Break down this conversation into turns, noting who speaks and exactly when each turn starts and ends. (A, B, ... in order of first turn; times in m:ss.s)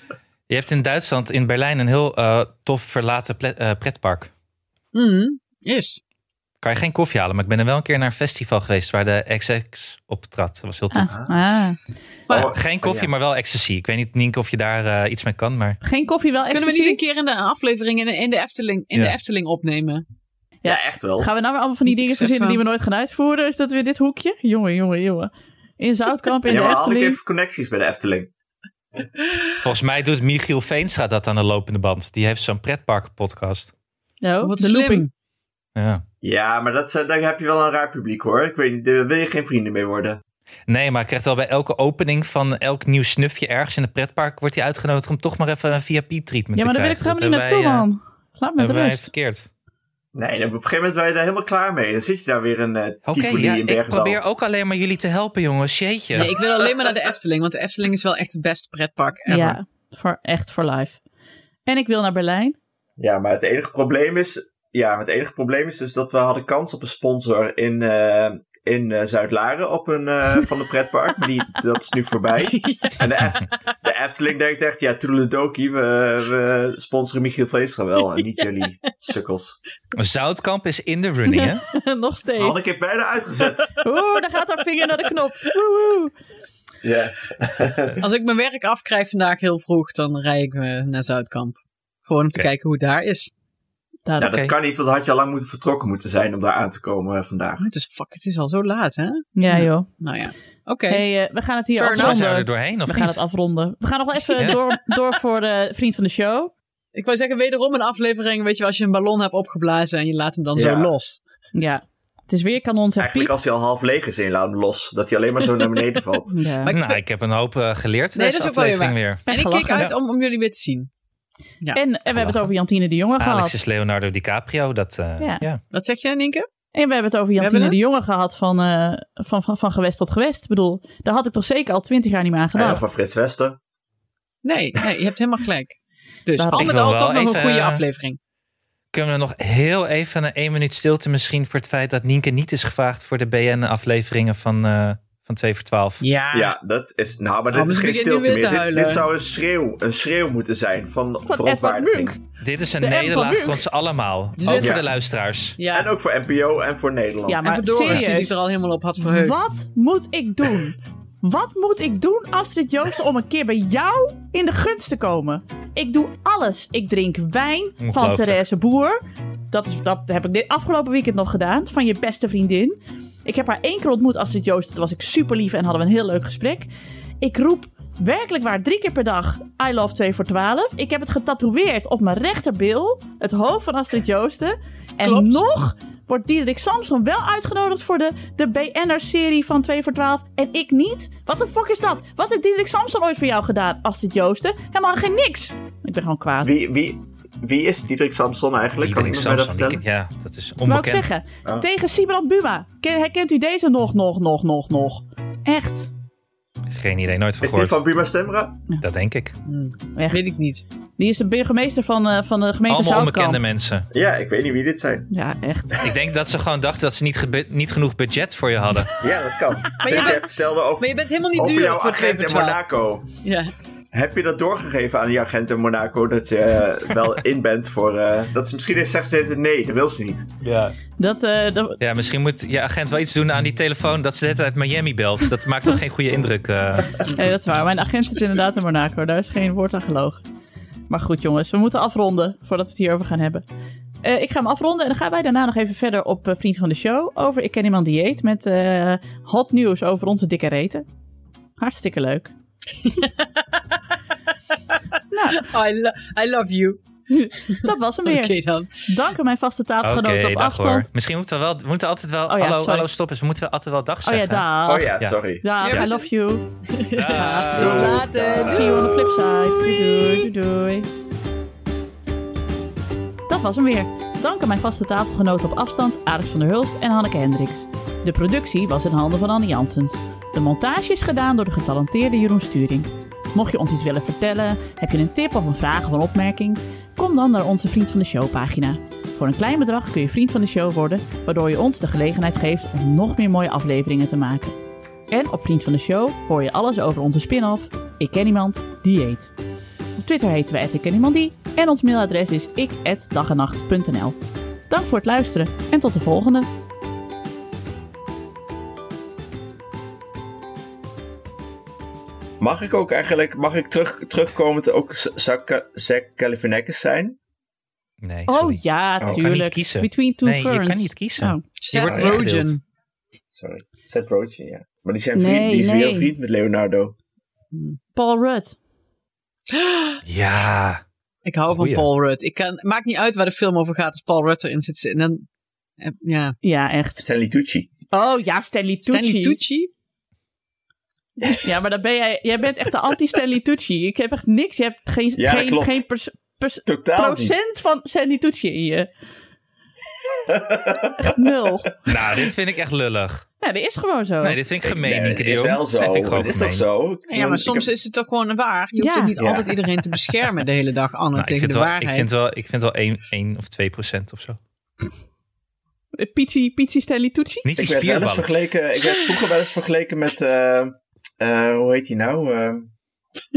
0:00.5-0:04.3 A
0:04.9-0:06.0 B
0:06.6-0:11.1 A
0:10.9-0:11.8 C
0:12.3-0:13.1 D
0:12.3-0:15.8 A
0:15.8-0:17.0 C
0:16.5-0:20.0 B
0:20.6-0:27.2 C
0:20.6-0:21.3 D
0:21.9-0:22.6 B
0:26.4-0:28.3 D
0:29.6-0:33.7 A
0:34.2-0:35.0 C
0:34.4-0:35.1 B
0:35.8-0:36.0 A
0:36.2-0:40.2 D
0:40.7-0:47.9 A
0:46.6-0:49.1 C
0:48.6-0:49.5 A
0:50.1-0:54.2 D
0:53.0-0:56.4 A
0:56.1-0:59.6 B
0:59.3-1:01.0 C
1:01.6-1:02.6 C
1:03.0-1:19.6 D
1:12.4-1:13.0 B
1:18.1-1:18.6 B
1:19.9-1:21.6 A
1:21.3-1:22.6 C
1:22.4-1:23.8 D
1:23.8-1:26.1 C
1:26.8-1:28.0 D
1:28.0-1:33.3 B
1:34.0-1:34.3 C
1:34.2-1:37.6 D
1:34.2-1:34.5 A
1:37.6-1:41.0 B
1:39.4-1:39.9 C
1:40.9-1:46.5 C
1:41.8-1:42.2 B
1:41.9-1:43.2 A
1:46.9-1:51.2 B
1:50.6-1:50.9 D
1:51.5-1:53.3 C
1:53.0-1:56.4 D
1:56.3-1:56.7 C
1:56.6-1:57.0 B
1:56.7-1:59.2 A
1:58.1-2:00.9 B
1:59.3-1:59.9 C
2:01.7-2:03.5 C
2:02.1-2:02.5 A
2:03.2-2:05.6 A
2:05.2-2:05.4 C
2:05.7-2:06.5 B
2:06.7-2:12.8 C
2:07.4-2:07.8 B
2:12.6-2:13.6 D
2:14.4-2:18.2 B
2:16.4-2:16.7 C
2:16.6-2:17.8 A
2:18.9-2:26.0 A
2:26.0-2:26.6 B
2:26.3-2:32.2 D
2:27.5-2:29.0 B
2:31.3-2:32.2 C
2:32.4-2:35.6 A
2:32.8-2:33.6 C
2:34.4-2:34.8 B
2:34.5-2:34.9 D
2:35.6-2:35.9 B
2:35.7-2:37.5 D
2:37.3-2:38.3 C
2:37.4-2:39.4 B
2:39.0-2:56.7 C
2:47.8-2:48.4 A
2:57.2-3:16.5 C
3:05.0-3:05.5 B
3:16.4-3:19.8 D
3:18.8-3:21.1 A
3:20.7-3:25.9 C
3:26.7-3:27.8 A
3:27.4-3:28.6 D
3:28.8-3:29.4 A
3:29.4-3:30.6 B
3:29.9-3:30.3 C
3:31.0-3:33.4 C
3:32.7-3:33.9 A
3:33.9-3:35.1 D
3:35.1-3:35.9 C
3:35.8-3:38.9 A
3:39.0-3:43.1 D
3:39.8-3:42.6 B
3:43.2-3:43.5 B
3:43.9-3:50.3 D
3:50.4-3:50.8 A
3:51.0-3:51.8 C
3:51.8-3:57.1 A
3:57.0-4:00.2 C
4:00.9-4:03.4 C
4:04.0-4:10.8 C
4:11.6-4:12.3 C
4:12.8-4:14.0 B
4:14.7-4:16.8 B
4:15.1-4:15.5 C
4:17.1-4:20.9 C
4:17.5-4:18.9 B
4:19.8-4:24.5 A
4:22.3-4:22.9 C
4:24.0-4:26.5 C
4:24.6-4:25.5 D
4:25.6-4:26.1 B
4:26.7-4:30.3 B
4:26.9-4:28.7 A
4:27.2-4:27.9 C
4:27.6-4:28.9 D
4:28.4-4:30.9 C
4:33.3-4:54.6 C
4:55.1-4:59.3 C
5:00.0-5:04.2 C
5:04.7-5:06.5 C
5:12.4-5:17.2 D
5:18.0-5:22.6 A
5:18.3-5:21.4 C
5:21.6-5:22.6 B
5:21.9-5:22.2 D
5:23.3-5:27.0 D
5:25.2-5:26.1 C
5:27.5-5:27.8 B
5:27.9-5:28.6 C
5:29.5-5:30.0 B
5:30.0-5:30.8 A
5:31.2-5:35.3 B
5:31.5-5:31.9 A
5:35.8-5:36.4 B
5:36.4-5:37.0 C
5:37.0-5:37.7 D
5:37.9-5:39.4 C
5:38.9-5:39.7 B
5:41.3-5:48.9 C
5:45.2-5:45.8 D
5:46.6-5:47.4 D
5:50.2-5:51.2 D
5:51.0-5:51.7 C
5:51.9-5:53.2 A
5:53.4-5:54.4 C
5:54.2-5:56.6 A
5:54.6-5:57.7 D
5:57.1-6:02.1 B
5:58.8-5:59.2 C
5:59.2-5:59.6 D
6:01.1-6:04.4 A
6:06.0-6:07.4 C
6:07.4-6:08.3 A
6:07.6-6:12.7 D